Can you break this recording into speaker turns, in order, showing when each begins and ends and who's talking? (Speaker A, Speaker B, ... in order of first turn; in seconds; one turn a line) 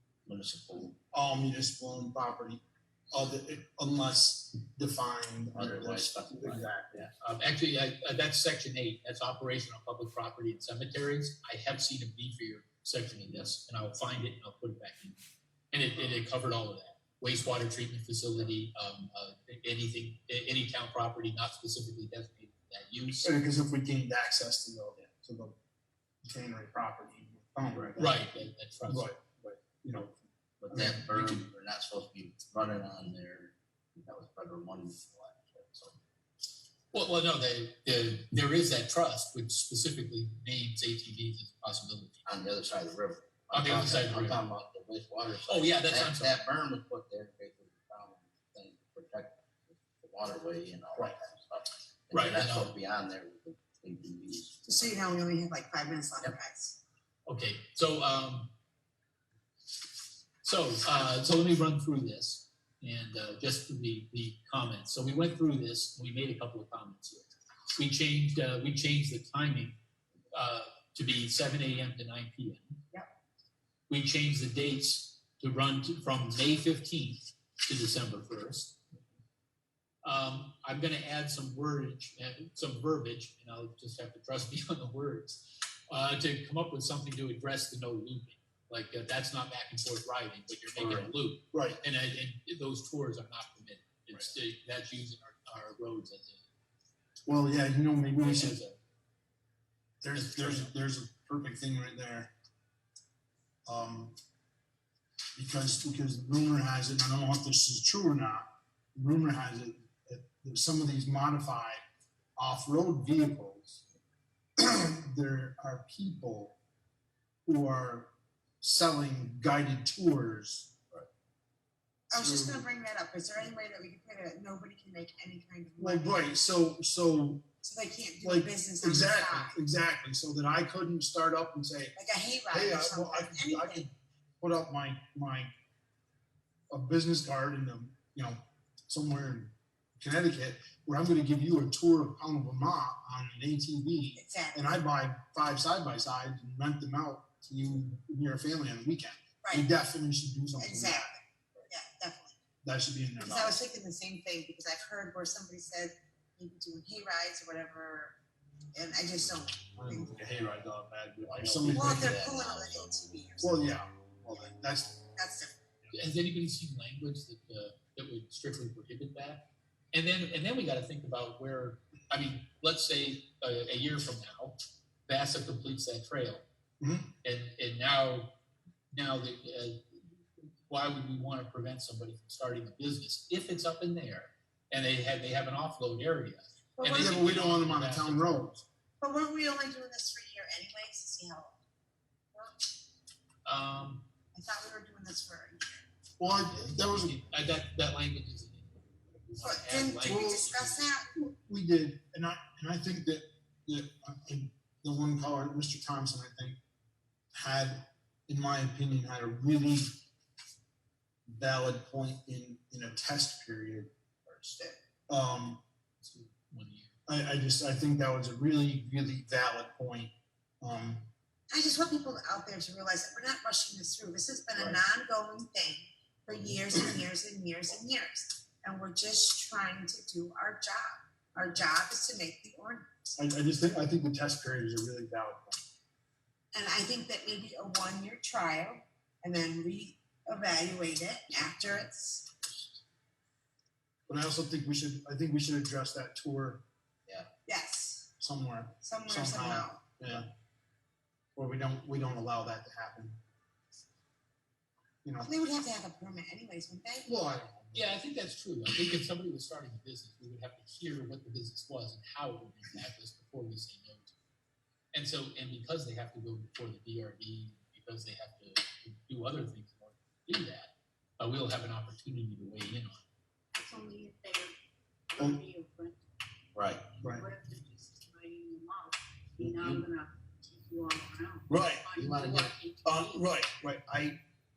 Speaker A: 0.3-1.0
Speaker B: 1.1-7.0
Speaker A: 5.5-7.1
Speaker C: 7.2-15.2
Speaker C: 15.7-23.3
Speaker B: 23.2-25.6
Speaker B: 26.2-28.2
Speaker C: 28.0-29.1
Speaker B: 28.9-30.2
Speaker A: 30.6-36.0
Speaker B: 30.7-31.4
Speaker C: 36.9-42.2
Speaker A: 42.3-55.0
Speaker C: 43.5-44.4
Speaker C: 45.5-46.4
Speaker C: 52.1-52.7
Speaker D: 54.7-56.8
Speaker C: 57.3-58.5
Speaker C: 60.4-69.8
Speaker C: 70.3-72.8
Speaker C: 73.9-78.8
Speaker C: 80.0-96.5
Speaker A: 90.8-91.1
Speaker B: 91.5-91.8
Speaker B: 97.3-98.6
Speaker C: 98.2-98.8
Speaker B: 100.0-102.3
Speaker C: 100.2-100.7
Speaker B: 103.7-104.2
Speaker B: 105.4-111.8
Speaker B: 112.4-113.8
Speaker B: 114.6-116.6
Speaker B: 117.5-120.7
Speaker D: 122.1-126.3
Speaker B: 122.1-122.6
Speaker B: 125.8-127.4
Speaker D: 127.6-129.6
Speaker B: 128.2-131.9
Speaker D: 132.0-133.9
Speaker B: 132.5-135.5
Speaker B: 136.7-151.1
Speaker D: 144.2-144.6
Speaker D: 150.6-152.4
Speaker B: 152.6-153.6
Speaker D: 153.2-158.2
Speaker D: 158.7-160.2
Speaker B: 159.8-162.1
Speaker A: 161.3-162.9
Speaker D: 161.7-163.7
Speaker B: 163.4-165.0
Speaker D: 165.2-165.6
Speaker C: 165.9-176.5
Speaker B: 176.8-177.1
Speaker C: 177.2-178.3
Speaker C: 178.9-179.9
Speaker C: 180.7-188.5
Speaker D: 186.8-187.2
Speaker B: 186.8-188.7
Speaker D: 189.0-191.6
Speaker D: 192.3-192.7
Speaker C: 193.4-194.1
Speaker D: 194.3-195.8
Speaker B: 196.2-197.2
Speaker C: 196.2-200.9
Speaker D: 199.4-201.1
Speaker B: 200.0-200.5
Speaker B: 201.1-206.6
Speaker B: 207.3-210.0
Speaker B: 211.3-213.9
Speaker A: 214.3-214.6
Speaker B: 215.1-215.6
Speaker C: 216.0-216.9
Speaker B: 217.1-221.1
Speaker D: 221.5-233.1
Speaker B: 224.6-224.8
Speaker B: 233.2-235.6
Speaker D: 236.5-242.3
Speaker B: 244.1-246.6
Speaker D: 247.5-248.1
Speaker B: 248.2-250.3
Speaker D: 248.8-249.8
Speaker B: 251.4-253.2
Speaker B: 255.0-255.3
Speaker D: 255.2-257.1
Speaker B: 257.1-258.0
Speaker C: 257.7-264.1
Speaker C: 264.9-273.1
Speaker E: 273.5-274.5
Speaker E: 275.1-276.0
Speaker A: 276.6-277.0
Speaker E: 277.1-283.3
Speaker A: 279.4-279.9
Speaker B: 281.5-281.9
Speaker A: 281.9-282.5
Speaker B: 282.8-284.2